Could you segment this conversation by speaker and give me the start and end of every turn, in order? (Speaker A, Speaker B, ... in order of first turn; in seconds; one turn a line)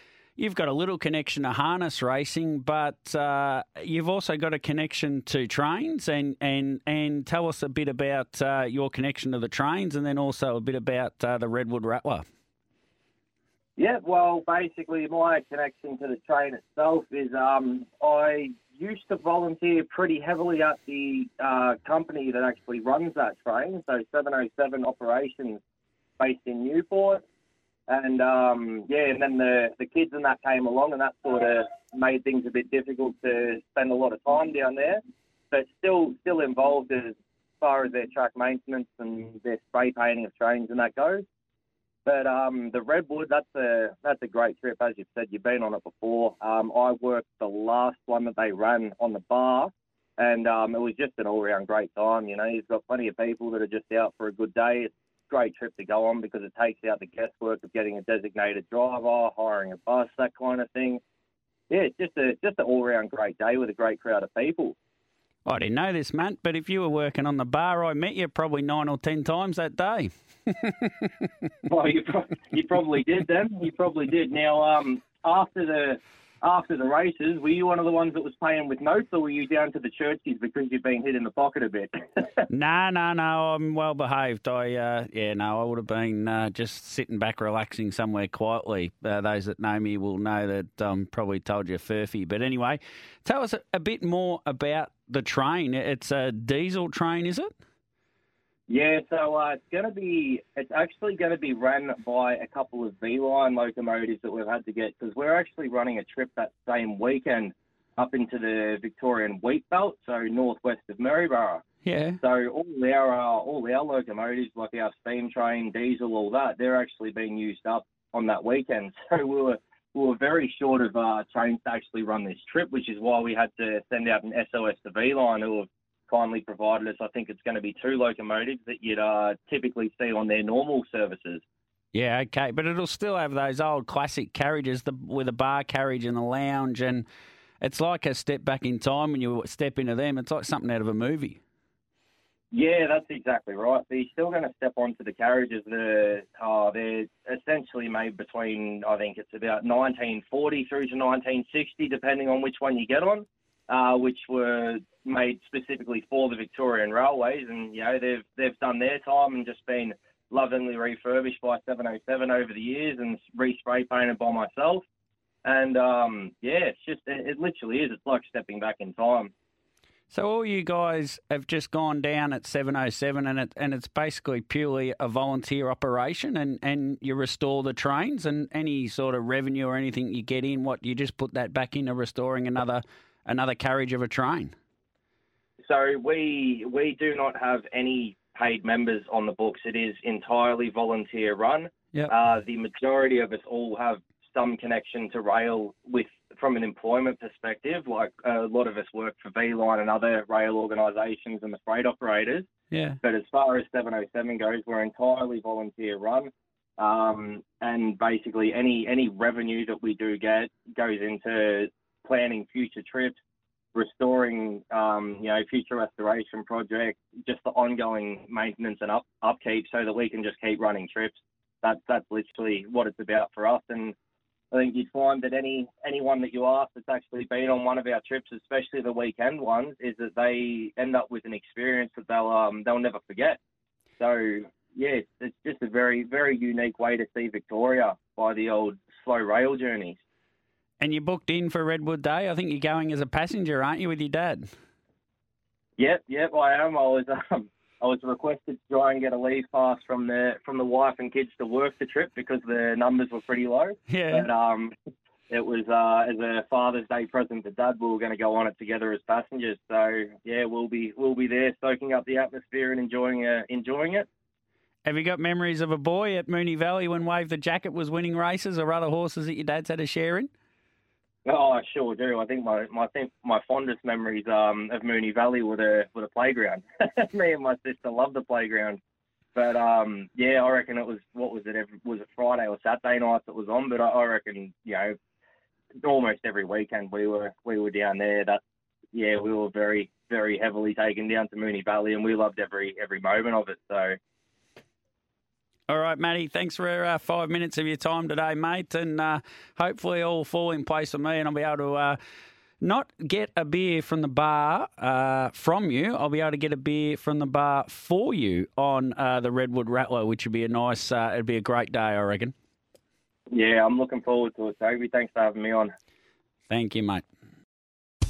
Speaker A: 0.4-12.2
Speaker B: 13.8-25.6
Speaker B: 26.2-27.2
Speaker B: 27.9-35.0
Speaker B: 35.5-41.2
Speaker B: 42.1-61.0
Speaker B: 61.7-64.8
Speaker A: 65.5-71.1
Speaker B: 71.7-82.3
Speaker A: 82.5-97.5
Speaker B: 98.7-111.7
Speaker A: 111.8-112.2
Speaker B: 112.2-131.4
Speaker A: 131.9-137.1
Speaker A: 137.6-141.4
Speaker B: 142.5-164.8
Speaker B: 165.4-169.3
Speaker A: 170.1-184.5
Speaker B: 185.6-202.5
Speaker A: 202.7-203.0
Speaker B: 203.0-213.2
Speaker B: 213.8-223.9
Speaker B: 224.5-233.4
Speaker B: 234.0-240.0
Speaker A: 240.8-244.5
Speaker B: 245.8-254.7
Speaker A: 253.9-254.3
Speaker B: 255.3-264.1
Speaker A: 264.9-270.3
Speaker B: 271.3-278.8
Speaker B: 279.4-285.0
Speaker B: 285.8-288.4
Speaker B: 288.9-294.0
Speaker A: 295.7-302.0
Speaker A: 302.6-312.3
Speaker B: 313.3-315.7
Speaker A: 316.5-317.0